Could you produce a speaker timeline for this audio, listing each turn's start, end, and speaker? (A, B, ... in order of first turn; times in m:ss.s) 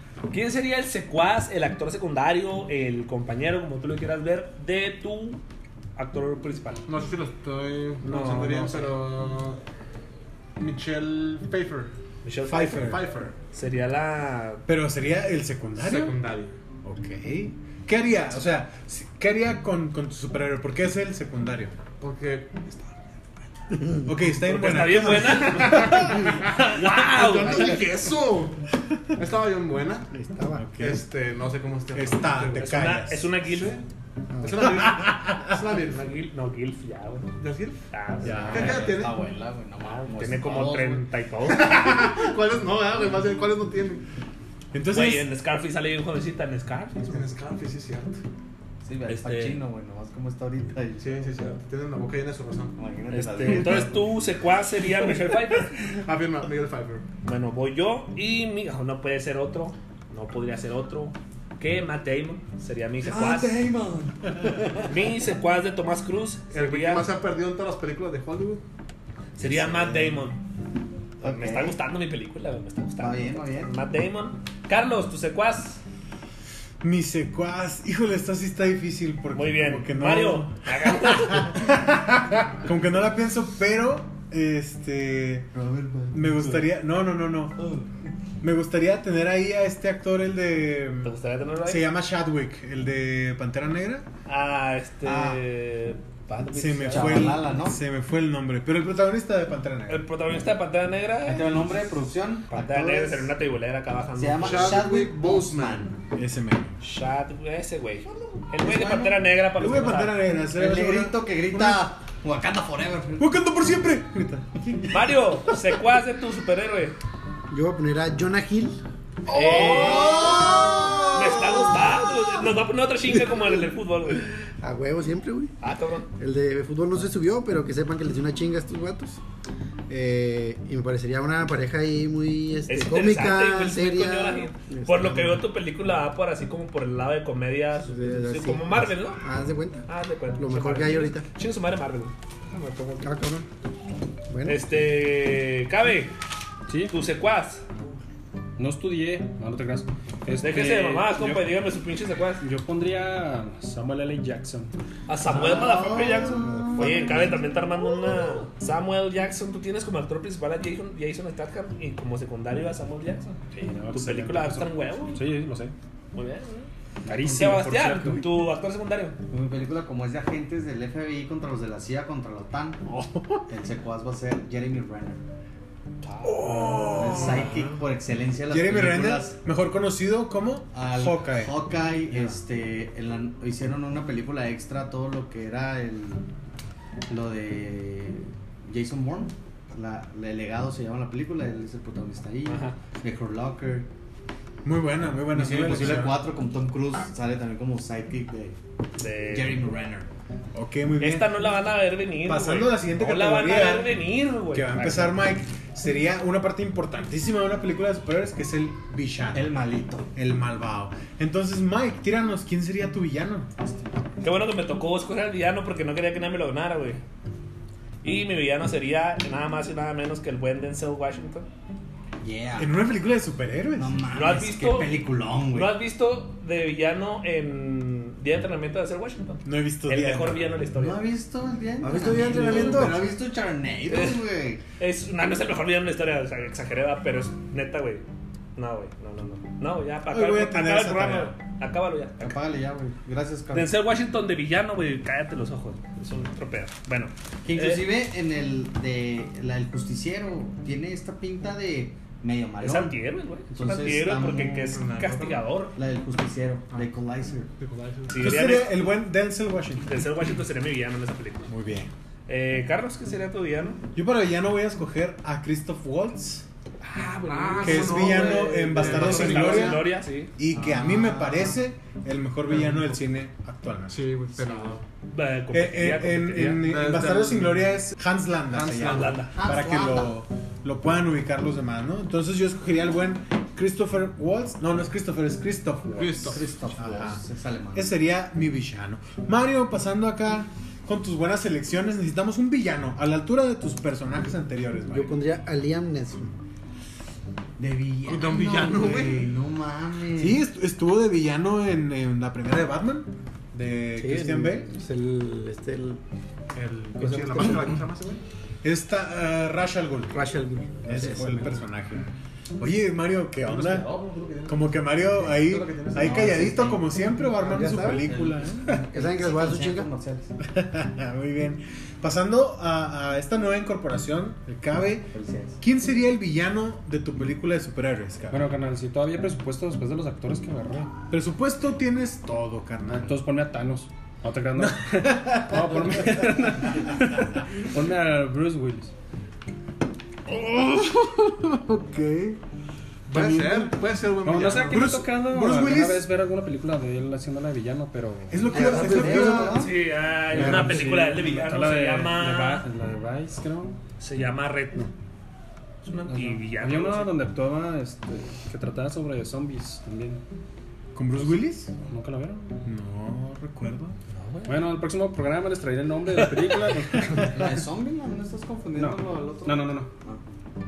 0:00.3-0:05.4 A
0:06.0-0:06.9 A
0:06.9-0:09.6 B
0:08.0-0:08.9 A
0:10.6-0:11.9 B
0:12.2-0:14.6 A
0:12.5-0:13.0 C
0:12.5-0:13.4 B
0:14.7-0:16.2 C
0:15.8-0:16.5 B
0:16.8-0:21.8 C
0:22.0-0:23.2 B
0:24.0-0:26.1 C
0:24.5-0:27.8 A
0:25.3-0:30.1 B
0:30.1-0:30.7 D
0:30.6-0:31.0 C
0:30.8-0:32.7 B
0:31.9-0:33.3 C
0:32.6-0:33.8 A
0:33.4-0:33.8 B
0:34.3-0:34.7 D
0:34.4-0:36.0 B
0:34.7-0:35.4 C
0:35.8-0:37.3 A
0:37.4-0:37.8 B
0:37.9-0:38.9 A
0:38.2-0:38.7 C
0:38.2-0:41.1 E
0:38.5-0:39.2 B
0:39.8-0:41.8 A
0:41.5-0:44.0 B
0:44.7-0:45.3 C
0:44.9-0:47.0 A
0:47.0-0:48.2 B
0:48.8-0:51.5 E
0:49.1-0:49.6 A
0:51.0-0:52.8 B
0:52.8-0:54.1 E
0:53.1-0:55.7 A
0:55.6-0:57.0 B
0:57.2-1:03.6 A
1:03.0-1:05.0 E
1:04.8-1:07.1 A
1:06.5-1:08.6 B
1:09.4-1:10.3 E
1:09.4-1:10.4 A
1:11.2-1:11.8 E
1:11.2-1:15.8 A
1:13.0-1:13.8 E
1:16.8-1:25.5 C
1:19.3-1:21.6 A
1:25.5-1:26.6 E
1:26.1-1:27.6 C
1:28.4-1:31.1 C
1:31.0-1:31.9 A
1:31.6-1:34.1 C
1:34.3-1:37.4 A
1:35.1-1:35.4 E
1:36.5-1:40.1 C
1:36.9-1:37.8 E
1:39.9-1:41.6 A
1:41.2-1:43.3 E
1:42.5-1:44.8 A
1:44.2-1:46.0 E
1:44.4-1:45.9 B
1:46.1-1:46.8 C
1:46.8-1:50.2 A
1:48.6-1:49.3 E
1:49.6-1:51.9 C
1:50.5-1:53.3 E
1:53.2-1:55.1 C
1:54.9-1:57.0 A
1:57.5-1:58.8 D
1:59.3-2:00.5 A
1:59.3-2:01.5 E
1:59.6-2:00.1 C
2:01.1-2:04.3 A
2:04.6-2:05.5 D
2:05.6-2:06.1 A
2:06.2-2:09.2 D
2:09.9-2:15.4 D
2:12.7-2:19.2 A
2:17.8-2:19.9 D
2:19.9-2:23.1 A
2:20.4-2:21.3 D
2:23.0-2:23.5 D
2:24.3-2:24.7 D
2:24.4-2:26.1 A
2:26.7-2:26.9 F
2:26.9-2:28.0 A
2:28.6-2:31.6 F
2:30.4-2:32.4 A
2:32.4-2:34.7 F
2:35.1-2:43.4 A
2:35.3-2:37.3 E
2:36.6-2:37.2 F
2:43.5-2:45.7 F
2:43.9-2:45.2 A
2:46.1-2:49.2 A
2:47.0-2:48.5 F
2:49.3-2:52.8 E
2:52.9-2:53.4 C
2:53.5-2:55.2 E
2:56.0-2:57.7 A
2:56.2-2:57.6 C
2:56.9-2:59.4 E
2:58.5-3:02.4 C
3:00.7-3:06.3 E
3:07.1-3:13.9 E
3:12.5-3:12.8 A
3:14.6-3:16.2 C
3:15.3-3:18.6 E
3:19.0-3:19.6 A
3:19.3-3:20.1 E
3:20.5-3:21.4 C
3:21.0-3:25.1 A
3:22.2-3:29.6 C
3:29.3-3:30.1 E
3:30.1-3:33.5 C
3:33.6-3:34.1 E
3:34.2-3:37.0 A
3:38.0-3:41.5 A
3:42.2-3:42.7 E
3:42.6-3:44.0 C
3:43.8-3:45.8 E
3:44.1-3:45.0 A
3:45.5-3:51.0 A
3:49.4-3:50.6 C
3:50.8-3:54.6 E
3:51.8-3:53.1 C
3:53.9-3:54.2 A
3:54.8-3:58.0 A
3:58.6-4:02.4 A
4:00.1-4:01.4 C
4:02.2-4:03.8 E
4:03.5-4:07.9 A
4:07.4-4:13.0 E
4:12.6-4:15.8 A
4:13.5-4:14.6 E
4:14.4-4:15.5 B
4:15.8-4:17.5 E
4:17.6-4:18.4 B
4:18.1-4:18.8 A
4:18.2-4:20.1 C
4:19.8-4:21.5 A
4:21.5-4:21.9 C
4:22.3-4:23.8 A
4:24.0-4:26.5 C
4:26.8-4:30.3 A
4:27.2-4:29.9 B
4:27.6-4:34.0 C
4:30.5-4:31.6 E
4:32.5-4:32.9 B
4:33.9-4:34.8 B
4:35.1-4:36.6 A
4:35.5-4:47.2 C
4:36.6-4:37.7 B
4:38.5-4:39.3 B
4:38.8-4:39.3 A
4:39.3-4:40.2 E
4:46.0-4:46.4 B
4:46.3-4:47.9 E
4:47.7-4:55.2 C
4:54.9-4:56.3 D
4:57.6-5:00.4 E
4:58.0-4:59.3 B
5:00.2-5:04.7 C
5:04.0-5:06.0 D
5:06.5-5:08.2 B
5:07.0-5:07.8 D
5:08.6-5:10.2 C
5:10.1-5:11.6 D
5:10.8-5:13.9 C
5:13.4-5:16.5 B
5:14.5-5:18.7 C
5:16.0-5:20.4 E
5:17.4-5:18.1 D
5:18.8-5:19.9 D
5:20.4-5:28.5 C
5:25.1-5:25.6 E
5:28.3-5:30.9 F
5:31.1-5:33.2 C
5:32.9-5:38.9 F
5:34.6-5:36.4 C
5:40.3-5:42.4 C
5:43.1-5:45.0 B
5:43.1-5:43.6 C
5:44.2-5:48.5 F
5:44.6-5:46.1 C
5:48.3-5:49.7 C
5:48.5-5:49.8 E
5:48.5-5:49.6 D
5:49.6-5:52.6 A
5:50.3-5:53.8 F
5:50.3-5:50.9 C
5:54.0-5:54.9 A
5:55.8-5:57.2 A
5:56.1-5:56.4 E
5:56.6-6:00.2 F
6:00.9-6:01.7 C
6:01.8-6:02.6 F
6:02.6-6:04.0 C
6:04.1-6:04.6 A
6:04.5-6:07.6 F
6:06.2-6:06.6 A
6:07.3-6:10.2 E
6:08.8-6:09.9 F